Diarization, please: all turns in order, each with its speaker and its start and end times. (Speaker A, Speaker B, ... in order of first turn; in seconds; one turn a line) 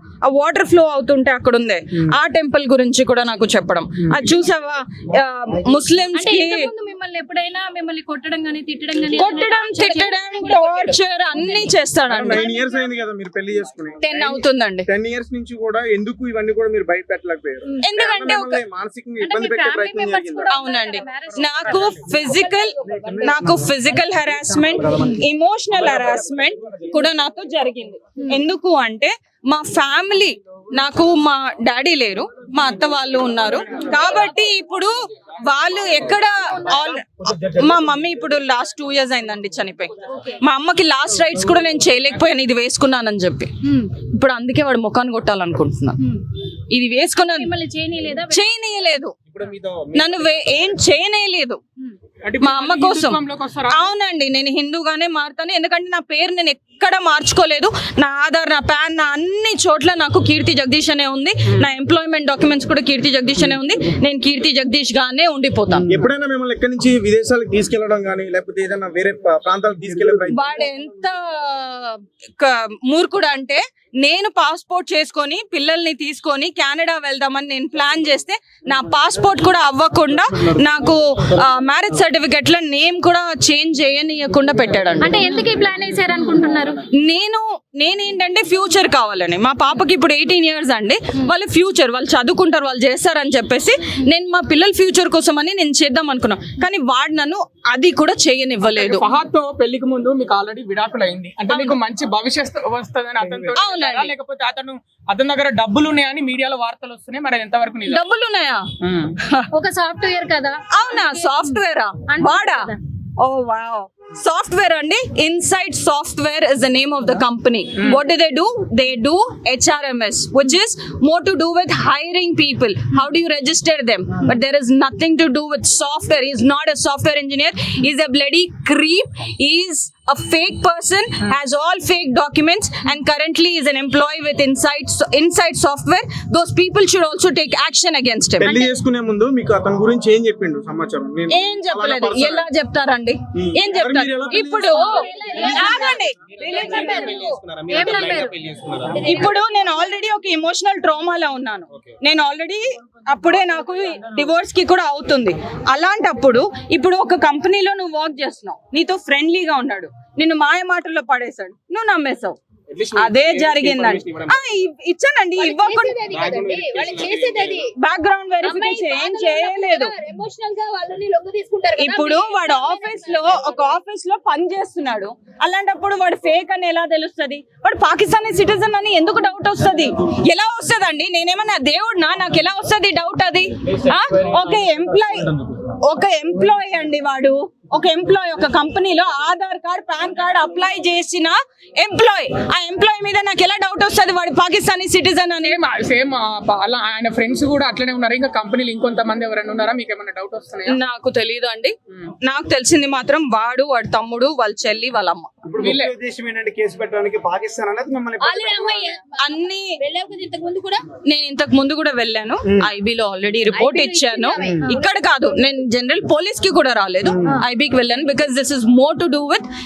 Speaker A: 0.2-6.7
Speaker B: 6.1-13.1
Speaker A: 9.1-12.4
Speaker C: 12.1-20.5
Speaker A: 14.0-14.9
Speaker A: 17.8-18.6
Speaker B: 19.2-22.2
Speaker A: 20.5-34.9
Speaker D: 22.2-23.4
Speaker C: 23.0-23.5
Speaker A: 35.4-46.1
Speaker B: 40.1-40.4
Speaker A: 46.7-47.5
Speaker B: 47.2-48.5
Speaker A: 48.3-49.1
Speaker E: 49.3-50.2
Speaker A: 49.9-51.6
Speaker F: 52.2-53.9
Speaker A: 52.4-66.1
Speaker C: 65.9-70.4
Speaker A: 70.3-85.4
Speaker B: 85.0-86.8
Speaker A: 87.0-99.1
Speaker F: 98.7-108.0
Speaker A: 101.5-101.8
Speaker A: 103.5-104.1
Speaker A: 107.8-108.7
Speaker F: 108.8-109.1
Speaker A: 109.2-109.5
Speaker B: 109.5-112.8
Speaker A: 110.7-138.6
Speaker F: 117.8-118.0
Speaker C: 138.4-142.4
Speaker B: 138.4-138.8
Speaker A: 141.3-147.3
Speaker C: 143.4-146.0
Speaker B: 144.3-148.4
Speaker D: 144.9-145.9
Speaker D: 146.6-148.2
Speaker D: 149.0-149.4
Speaker A: 149.0-162.4
Speaker A: 162.9-166.1
Speaker D: 165.4-167.7
Speaker E: 166.5-167.5
Speaker A: 167.7-169.9
Speaker D: 168.4-173.6
Speaker A: 171.8-195.6
Speaker F: 195.4-200.8
Speaker A: 200.6-205.3
Speaker C: 205.4-208.9
Speaker F: 205.6-206.0
Speaker D: 208.2-210.8
Speaker A: 209.2-209.7
Speaker A: 211.1-219.4
Speaker D: 213.5-214.9
Speaker C: 214.4-214.7